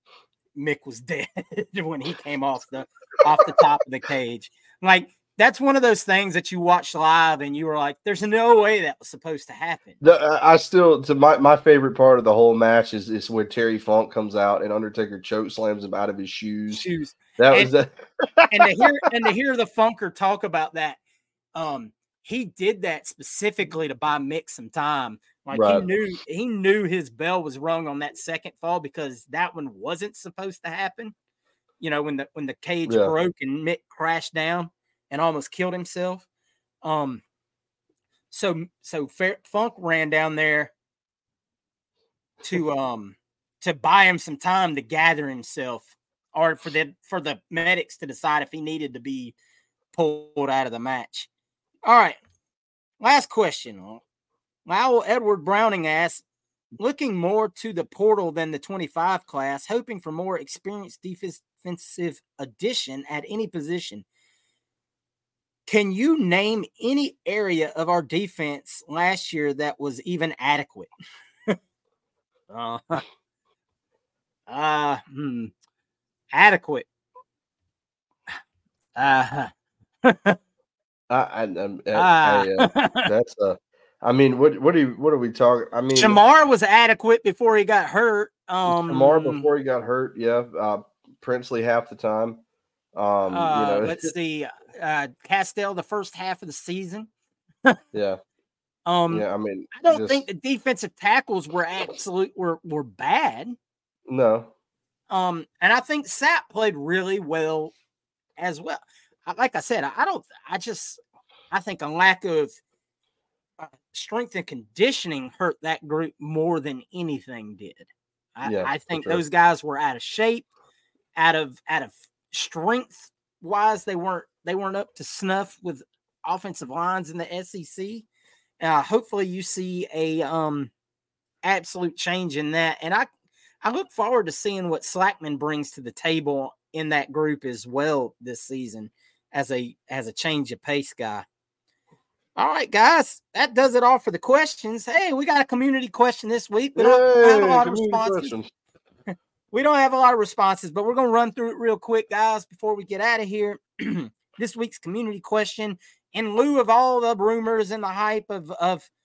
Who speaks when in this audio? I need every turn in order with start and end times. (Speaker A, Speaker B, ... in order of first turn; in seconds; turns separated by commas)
Speaker A: 0.5-10.0, Speaker B: 10.0-16.9, Speaker A: 16.7-17.7, Speaker B: 17.4-18.9, Speaker A: 18.5-21.0, Speaker A: 21.5-31.1, Speaker B: 25.5-25.9, Speaker A: 31.8-36.2, Speaker B: 32.9-33.1, Speaker A: 36.8-37.2, Speaker A: 38.3-40.7, Speaker A: 42.4-49.3, Speaker A: 49.9-51.3, Speaker A: 51.8-52.2, Speaker A: 53.0-54.0, Speaker A: 54.6-56.2, Speaker A: 56.8-64.0, Speaker A: 65.7-70.9, Speaker A: 72.5-73.0, Speaker A: 74.5-75.5, Speaker A: 76.3-76.8, Speaker A: 79.0-79.5, Speaker A: 80.0-80.4, Speaker B: 81.1-86.2, Speaker A: 81.9-83.1, Speaker A: 85.9-89.5, Speaker B: 88.7-92.4, Speaker B: 92.9-94.1, Speaker A: 93.3-97.1, Speaker B: 97.9-98.2, Speaker A: 98.8-103.5, Speaker B: 99.1-100.2, Speaker B: 104.1-104.5, Speaker A: 105.1-107.7, Speaker A: 108.4-111.0, Speaker A: 111.5-112.6, Speaker A: 113.6-120.5, Speaker B: 118.4-119.2, Speaker A: 121.2-128.1, Speaker A: 128.6-130.7, Speaker A: 131.4-133.1, Speaker A: 133.6-141.2, Speaker A: 142.3-148.3, Speaker B: 146.8-148.5, Speaker A: 149.5-158.9